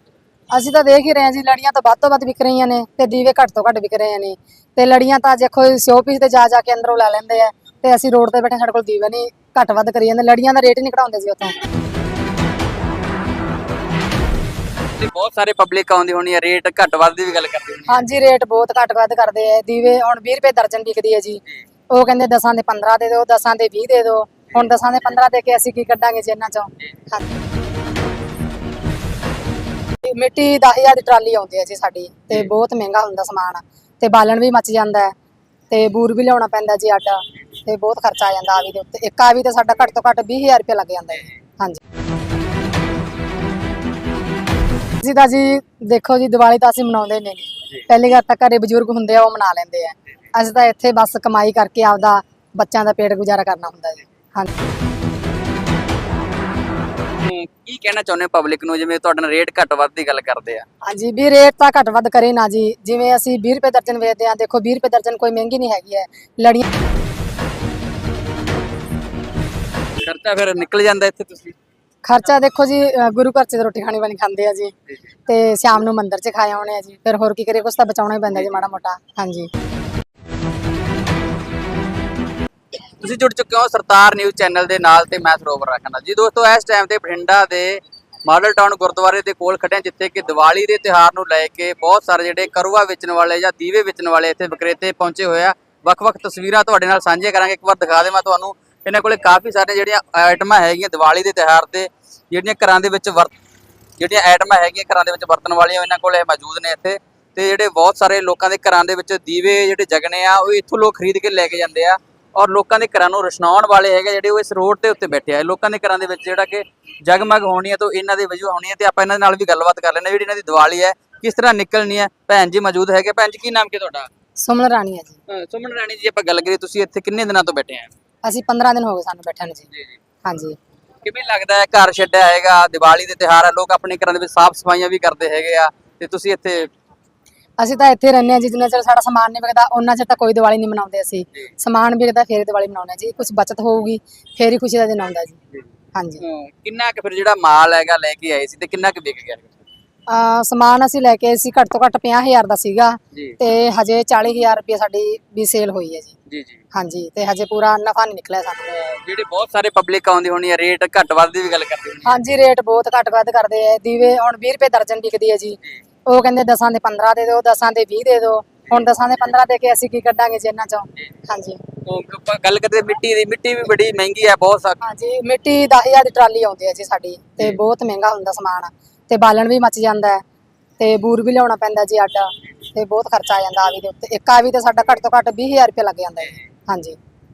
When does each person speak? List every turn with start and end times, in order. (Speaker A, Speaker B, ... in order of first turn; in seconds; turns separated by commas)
Speaker A: 0.5-11.5, Speaker B: 15.0-18.0, Speaker A: 17.9-27.3, Speaker A: 30.1-35.1, Speaker A: 35.7-41.8, Speaker A: 45.0-54.5, Speaker B: 57.2-60.6, Speaker A: 60.8-66.6, Speaker B: 70.0-71.5, Speaker A: 72.0-74.7, Speaker A: 75.3-79.5, Speaker B: 83.0-103.3, Speaker B: 104.0-124.1, Speaker A: 124.4-125.2, Speaker B: 125.3-127.9, Speaker A: 128.2-129.7, Speaker A: 130.2-130.6, Speaker B: 131.0-136.7, Speaker A: 137.6-145.4, Speaker A: 145.9-146.2, Speaker B: 146.2-149.6, Speaker A: 150.1-156.1, Speaker B: 156.3-156.6, Speaker A: 156.7-158.7, Speaker B: 158.7-162.0, Speaker A: 162.0-171.6, Speaker B: 171.8-174.8, Speaker A: 174.8-180.2, Speaker A: 180.8-187.0